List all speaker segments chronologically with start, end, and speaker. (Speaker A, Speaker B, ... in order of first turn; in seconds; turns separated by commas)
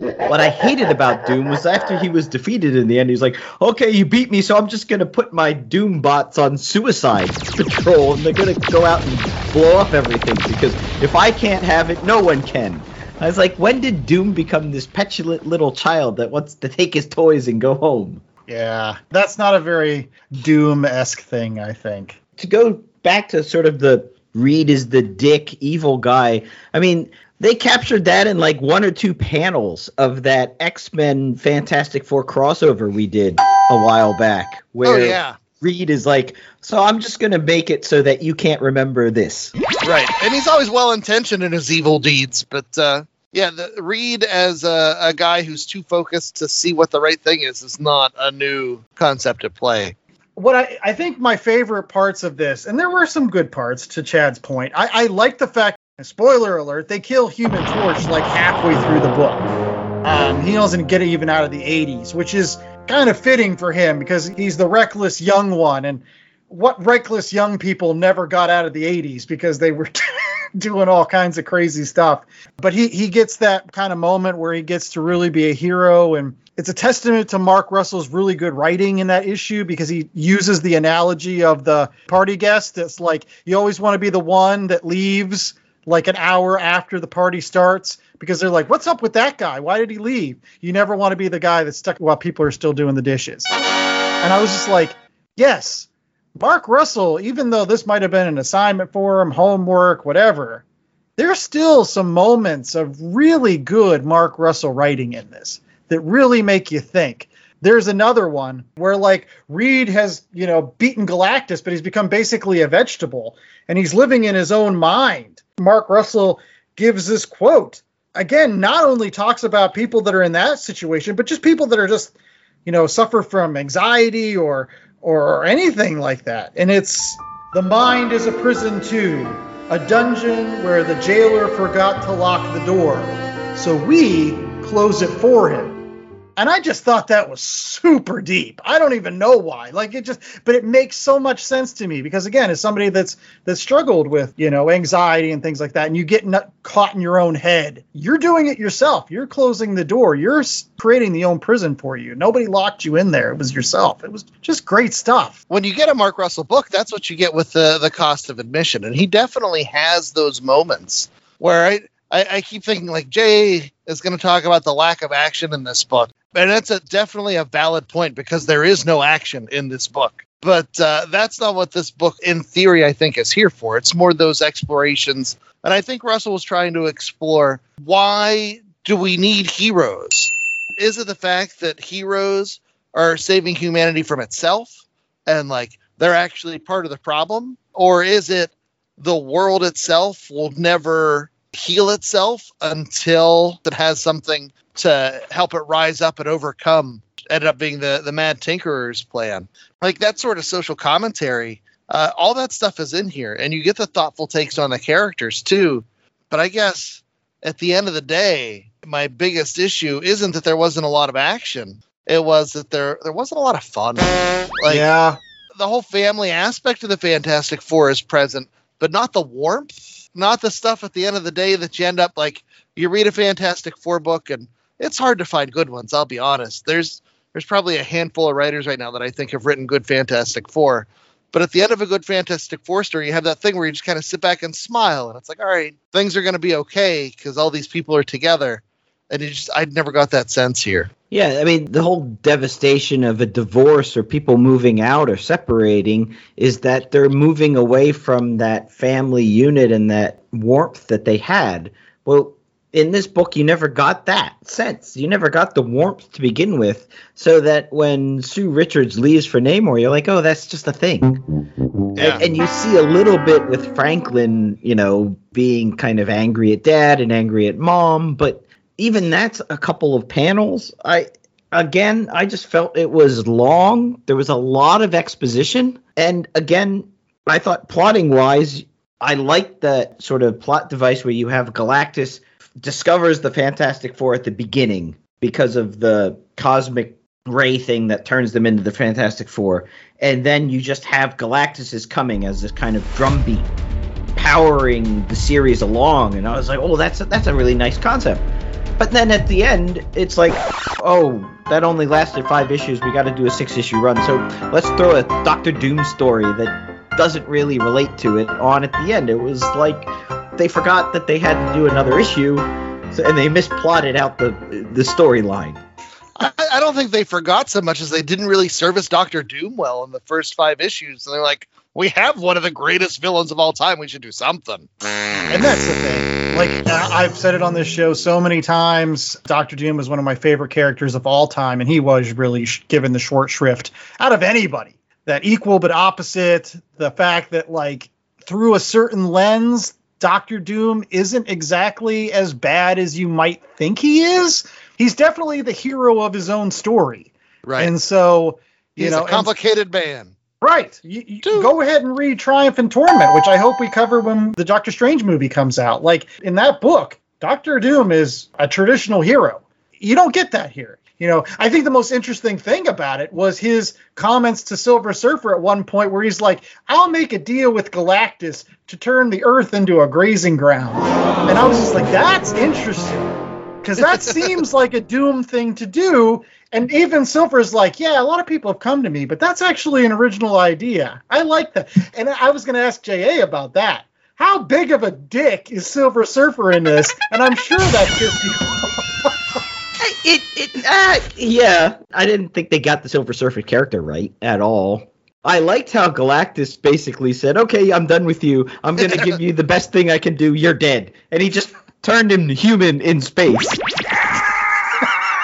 Speaker A: 0.3-18.2, Speaker B: 18.5-22.1, Speaker A: 22.4-39.5, Speaker C: 34.8-35.4, Speaker C: 39.8-49.9, Speaker B: 50.4-59.5, Speaker B: 60.0-70.0, Speaker B: 70.6-93.5, Speaker B: 94.2-100.6, Speaker B: 101.2-122.1, Speaker B: 122.7-135.8, Speaker B: 136.4-155.4, Speaker C: 155.5-184.7, Speaker C: 185.3-214.9, Speaker B: 214.7-215.2, Speaker C: 215.6-240.9, Speaker A: 241.1-261.2, Speaker C: 261.9-262.2, Speaker A: 261.9-293.5, Speaker A: 294.1-298.2, Speaker A: 298.8-315.6, Speaker C: 316.2-324.7, Speaker B: 325.3-349.3, Speaker C: 347.4-347.7, Speaker C: 348.8-350.1, Speaker B: 350.4-373.1, Speaker C: 351.2-351.5, Speaker B: 373.6-389.1, Speaker A: 389.8-403.6